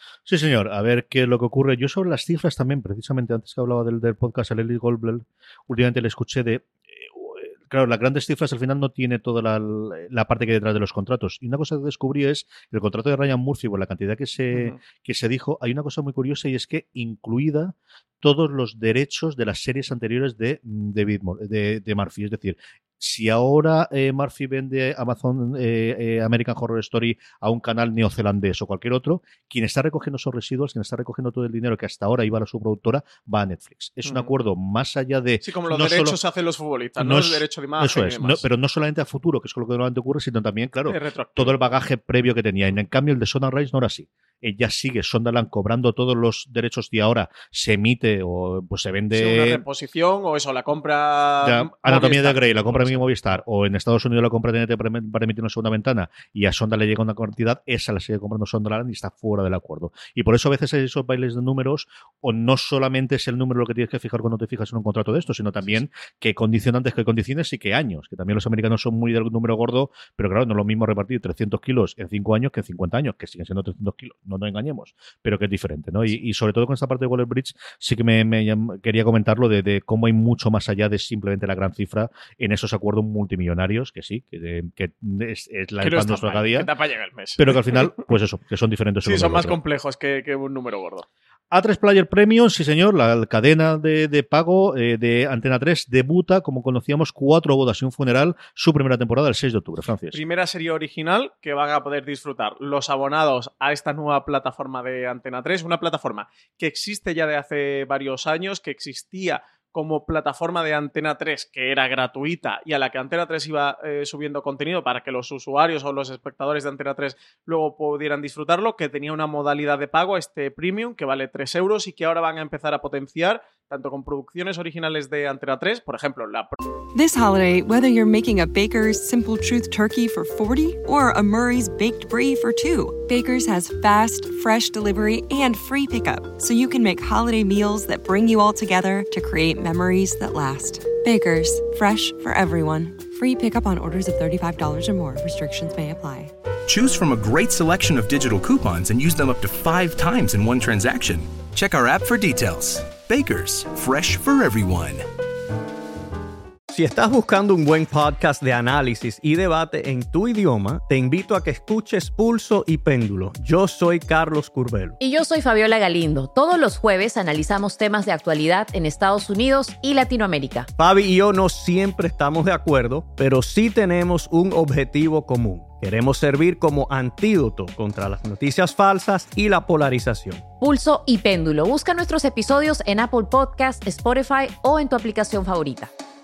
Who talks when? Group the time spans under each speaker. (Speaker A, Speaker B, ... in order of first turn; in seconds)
Speaker A: 0.3-36.2, 37.0-49.6, 51.4-86.7, 87.4-89.6, 91.5-100.2
Speaker B: 14.5-14.8, 34.0-34.3, 35.4-38.4, 40.9-41.5, 49.1-53.4, 85.8-88.0, 89.0-91.0, 100.1-126.6
Speaker C: 126.9-146.3
Speaker D: 146.7-155.1
Speaker E: 156.7-165.0, 170.8-180.4
Speaker F: 165.0-170.7, 180.6-185.9